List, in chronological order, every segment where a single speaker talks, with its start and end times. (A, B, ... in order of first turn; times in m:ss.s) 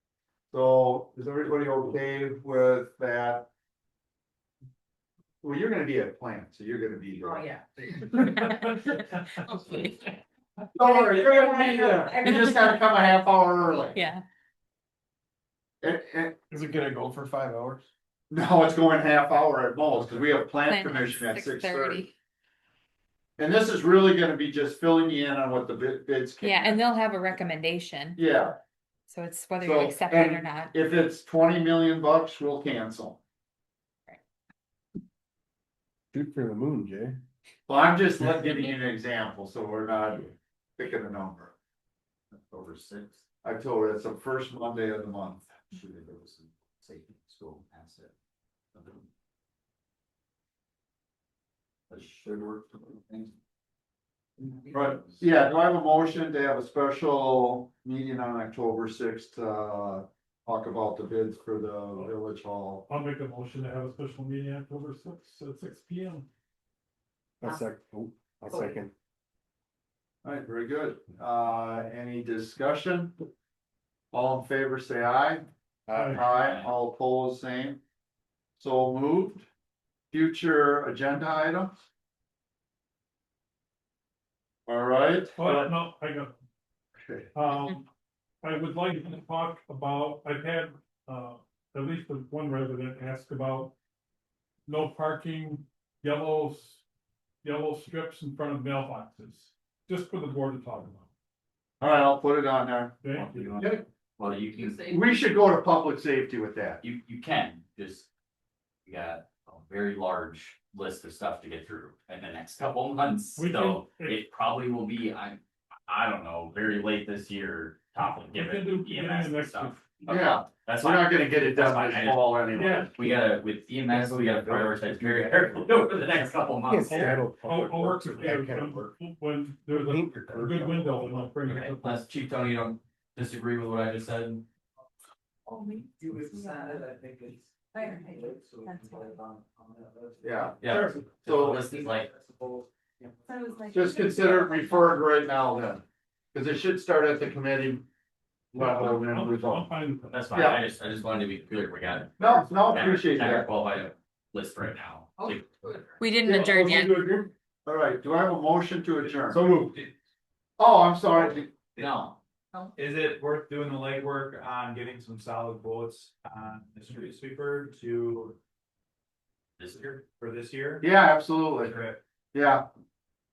0:00.5-0:03.5 A
0:05.4-0:08.7 A
0:08.2-0:08.6 B
0:09.6-0:10.0 B
0:10.7-0:14.0 A
0:10.8-0:12.8 B
0:13.9-0:14.2 B
0:15.8-0:16.4 A
0:16.5-0:17.8 C
0:18.3-0:22.1 A
0:20.6-0:22.1 B
0:23.4-0:26.8 A
0:26.4-0:28.2 B
0:28.2-0:28.6 A
0:29.1-0:30.7 B
0:29.6-0:33.2 A
0:36.1-0:37.2 C
0:37.7-0:41.5 A
0:42.4-0:43.2 D
0:43.4-0:45.6 A
0:45.7-0:48.1 D
0:48.7-0:49.0 D
0:51.9-0:53.3 D
0:54.4-0:55.2 D
0:54.7-1:02.9 A
1:02.9-1:06.2 E
1:07.4-1:08.9 C
1:08.5-1:08.8 B
1:10.2-1:13.1 A
1:14.1-1:15.4 A
1:15.9-1:16.2 C
1:15.9-1:16.2 E
1:16.1-1:17.8 A
1:16.3-1:16.7 D
1:18.6-1:19.5 A
1:20.1-1:21.8 A
1:24.7-1:25.7 A
1:25.4-1:26.3 E
1:27.0-1:27.3 A
1:27.3-1:27.9 E
1:28.4-1:33.7 E
1:34.7-1:36.8 E
1:37.4-1:41.1 E
1:41.8-1:43.8 A
1:43.0-1:43.6 E
1:43.2-1:45.0 D
1:44.8-1:46.8 A
1:46.8-1:48.1 D
1:48.8-2:07.2 D
1:53.4-1:54.2 E
1:58.3-1:59.8 E
2:00.1-2:02.9 A
2:02.5-2:03.0 E
2:03.9-2:05.8 C
2:06.6-2:08.9 C
2:06.8-2:12.0 E
2:09.7-2:11.1 C
2:11.5-2:14.4 D
2:15.5-2:16.8 B
2:16.0-2:20.9 F
2:17.7-2:19.2 B
2:20.2-2:21.6 A
2:20.6-2:22.1 D
2:21.8-2:23.3 F
2:23.3-2:24.7 B
2:23.7-2:27.8 A
2:28.5-2:29.7 A
2:28.6-2:30.2 E
2:30.1-2:35.6 D
2:30.3-2:30.6 A
2:32.2-2:33.5 A
2:36.0-2:37.1 B
2:36.2-2:39.6 A
2:39.0-2:39.9 F
2:40.6-2:41.5 A
2:41.8-2:42.2 D
2:42.7-2:48.4 F
2:49.6-2:50.0 D
2:50.1-2:50.8 F
2:50.8-2:51.8 A
2:51.6-2:52.0 F
2:52.3-2:52.6 A